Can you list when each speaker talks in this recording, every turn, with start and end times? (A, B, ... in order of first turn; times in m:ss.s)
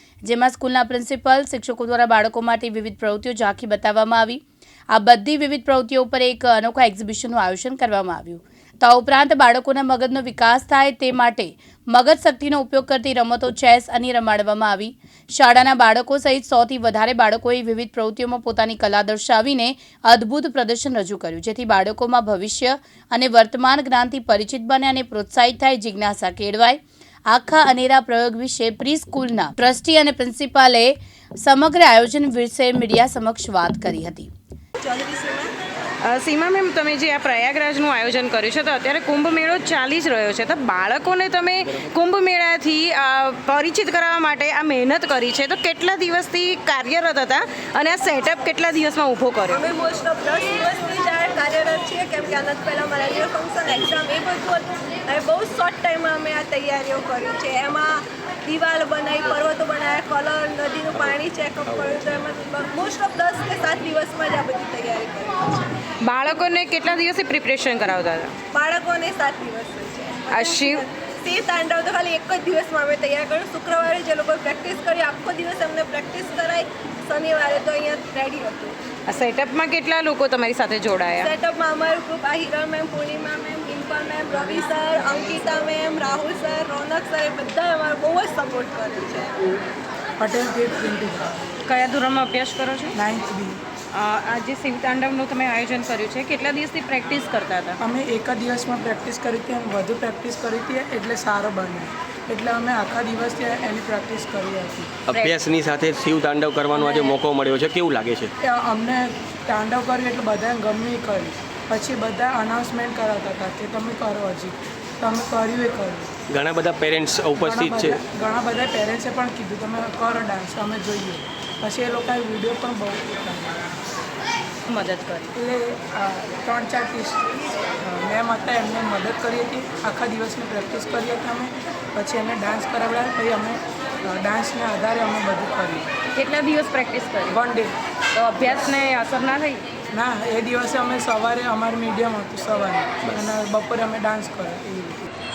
0:00.2-0:34.3 A
0:34.8-0:35.5 B
0:36.1-0:49.6 C
0:49.5-1:05.7 B
1:00.9-1:02.1 D
1:06.0-1:08.3 C
1:08.5-1:18.8 B
1:10.3-1:10.8 C
1:19.1-1:21.3 C
1:21.2-1:29.6 B
1:30.2-1:31.4 E
1:31.7-1:32.9 C
1:32.9-1:33.6 E
1:33.9-1:37.8 C
1:37.8-1:44.9 E
1:45.1-1:48.3 D
1:45.1-1:45.4 C
1:46.7-1:47.2 C
1:48.4-1:56.1 E
1:56.3-1:58.0 D
1:57.4-2:03.6 E
2:04.7-2:05.3 C
2:05.4-2:15.9 E
2:16.2-2:17.4 C
2:17.3-2:17.7 E
2:18.2-2:19.6 C
2:19.9-2:25.1 E